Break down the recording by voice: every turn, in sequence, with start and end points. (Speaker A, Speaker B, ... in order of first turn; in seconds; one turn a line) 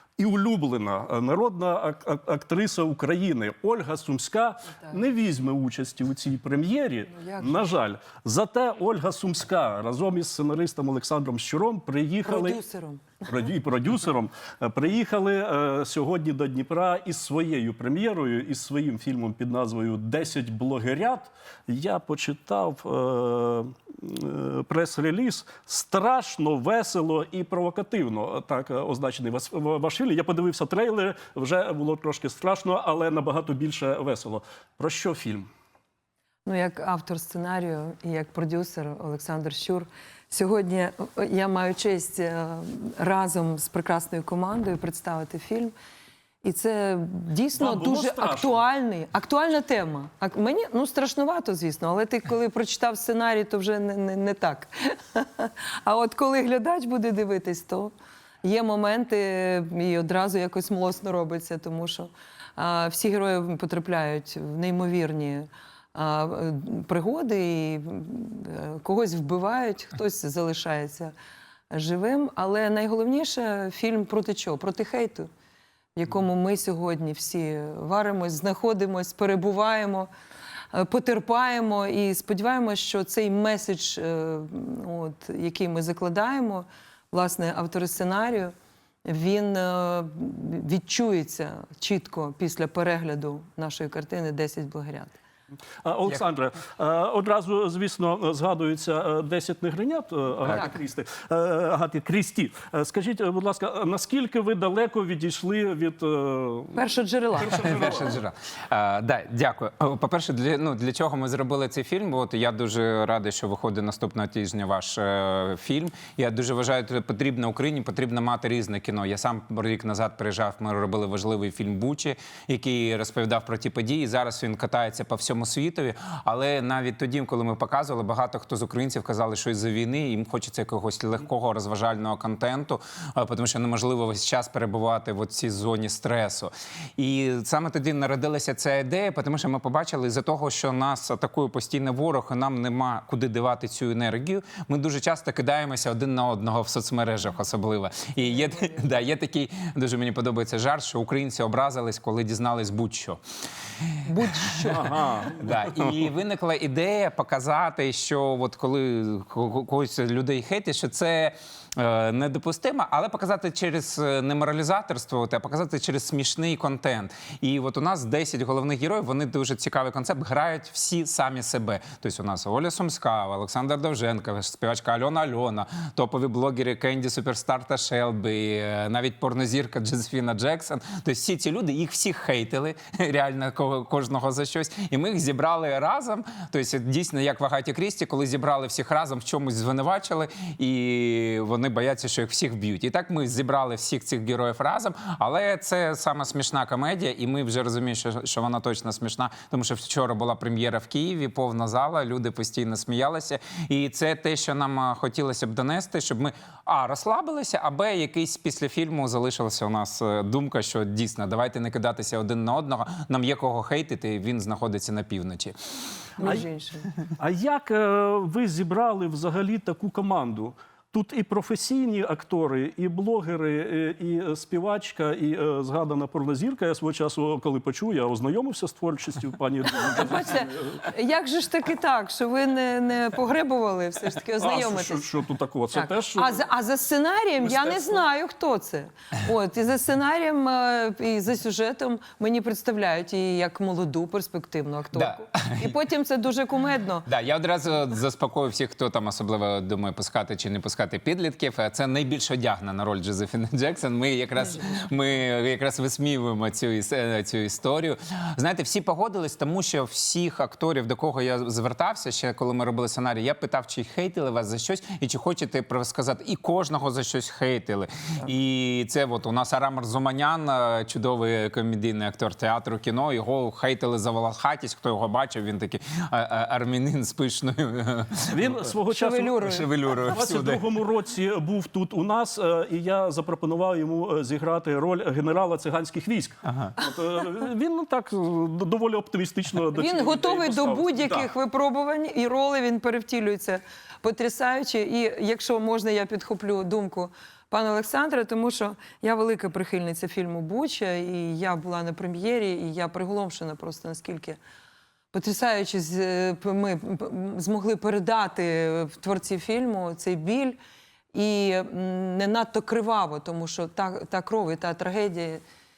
Speaker A: 0.2-12.6
Speaker B: 7.1-7.7
Speaker B: 12.2-13.1
Speaker A: 13.2-35.5
Speaker B: 36.5-45.7
Speaker B: 46.4-57.9
Speaker A: 47.5-48.6
Speaker B: 58.4-71.1
Speaker B: 71.7-75.3
Speaker B: 76.0-80.1
Speaker B: 80.7-88.5
Speaker B: 89.0-95.2
Speaker A: 95.8-108.2
Speaker B: 100.5-100.8
Speaker B: 106.7-107.9
Speaker C: 107.5-153.2
Speaker B: 148.2-148.9
Speaker C: 153.8-154.6
Speaker B: 154.1-155.0
Speaker A: 154.6-156.0
Speaker C: 155.4-215.5
Speaker B: 216.2-216.9
Speaker A: 217.2-230.9
Speaker B: 229.9-235.1
Speaker A: 234.4-236.4
Speaker B: 235.7-247.1
Speaker A: 237.4-238.0
Speaker C: 244.9-245.8
Speaker C: 247.1-278.7
Speaker A: 278.3-291.3
Speaker B: 278.9-279.7
Speaker C: 279.4-280.6
Speaker C: 286.5-286.7
Speaker B: 289.7-304.4
Speaker B: 305.1-310.6
Speaker B: 311.1-315.4